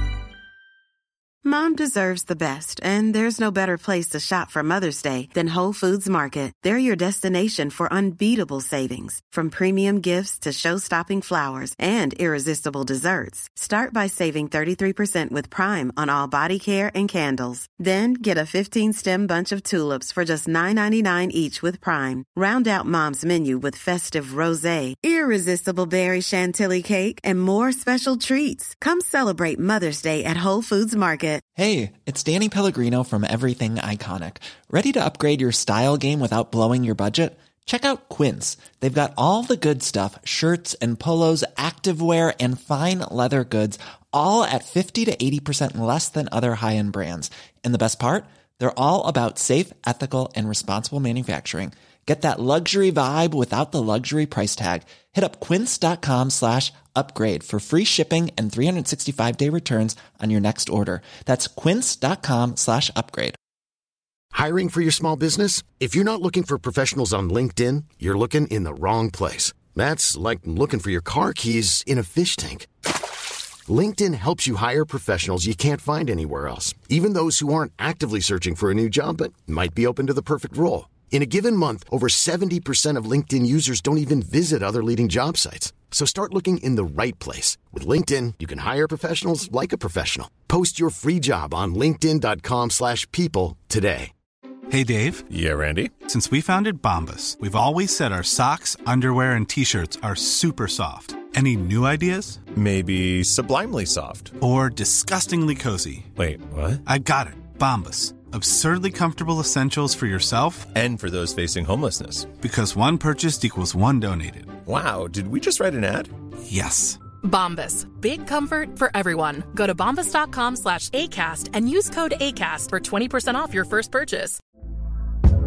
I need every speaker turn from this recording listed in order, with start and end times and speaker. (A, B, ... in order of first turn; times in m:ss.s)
0:01.4-0:31.4 A
0:31.5-1:03.4 B
1:04.3-1:12.7 C
1:13.7-1:34.1 C
1:34.7-1:35.3 D
1:35.3-1:35.9 E
1:36.0-1:42.5 D
1:42.5-1:44.3 E
1:44.4-1:46.1 D
1:46.2-1:46.8 E
1:46.8-1:50.7 D
1:50.7-1:52.3 E
1:52.4-1:54.6 D
1:54.6-1:56.1 E
1:56.4-1:57.0 D
1:57.2-2:04.4 F